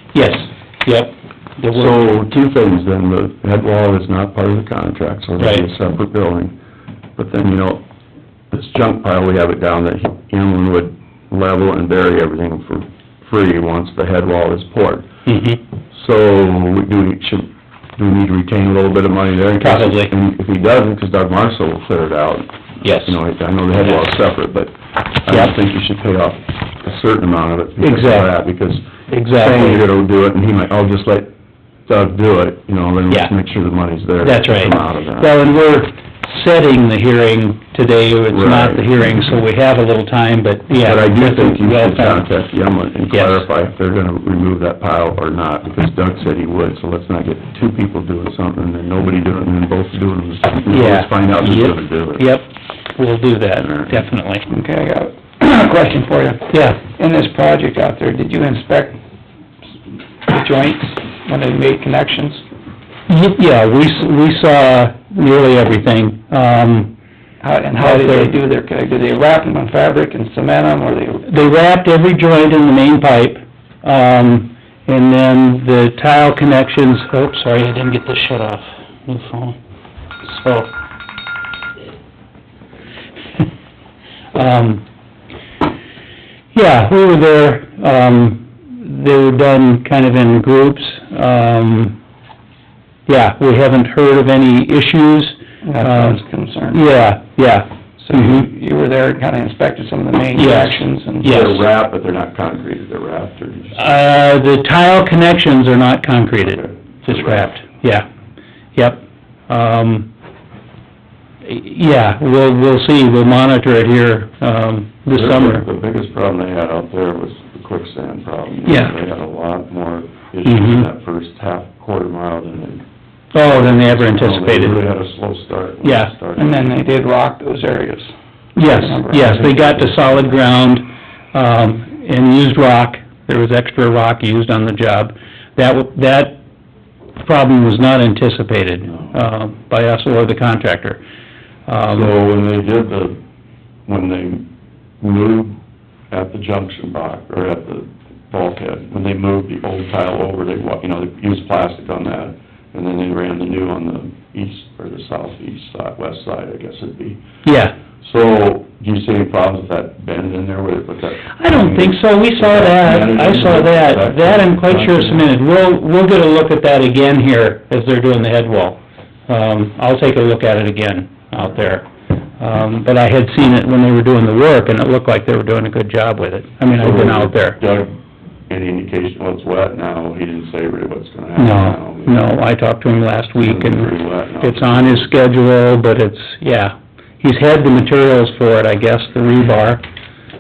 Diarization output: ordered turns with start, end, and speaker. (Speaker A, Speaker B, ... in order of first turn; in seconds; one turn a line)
Speaker A: 0.1-2.1
Speaker B: 1.7-6.6
Speaker A: 5.4-5.7
Speaker B: 7.2-7.8
Speaker B: 8.5-15.1
Speaker A: 15.3-15.6
Speaker B: 15.9-31.3
Speaker A: 19.6-20.1
Speaker A: 22.8-23.2
Speaker A: 23.8-24.1
Speaker A: 25.3-25.5
Speaker A: 27.8-28.3
Speaker A: 29.1-29.8
Speaker B: 31.9-35.4
Speaker A: 34.2-42.3
Speaker B: 38.3-38.9
Speaker B: 40.8-52.3
Speaker A: 43.1-43.5
Speaker A: 50.7-54.5
Speaker B: 53.6-54.0
Speaker C: 54.5-59.0
Speaker A: 56.5-56.8
Speaker C: 60.3-62.4
Speaker A: 63.1-66.9
Speaker C: 67.4-71.3
Speaker A: 67.8-68.4
Speaker A: 71.3-79.6
Speaker A: 80.2-80.7
Speaker A: 84.3-84.8
Speaker A: 86.5-92.0
Speaker A: 93.1-96.2
Speaker C: 95.6-97.2
Speaker A: 96.7-98.5
Speaker C: 98.0-101.5
Speaker A: 100.3-101.6
Speaker B: 101.2-104.0
Speaker A: 103.8-108.1
Speaker B: 106.4-107.6
Speaker A: 108.8-110.1
Speaker A: 111.4-115.7
Speaker B: 115.1-122.8
Speaker A: 118.7-118.9
Speaker A: 120.5-120.9
Speaker A: 123.3-124.9
Speaker B: 123.4-126.8
Speaker A: 125.8-126.1
Speaker C: 126.4-128.1
Speaker A: 128.6-136.4
Speaker C: 128.6-130.0
Speaker A: 137.2-141.0
Speaker B: 138.9-139.2
Speaker A: 141.7-142.1
Speaker B: 141.9-143.2
Speaker B: 143.9-144.5
Speaker B: 145.0-145.6
Speaker B: 146.1-157.2
Speaker A: 157.4-157.8
Speaker B: 158.0-165.3
Speaker A: 161.4-171.9
Speaker A: 172.4-177.6
Speaker B: 176.7-182.4
Speaker A: 181.4-189.8
Speaker B: 183.4-185.1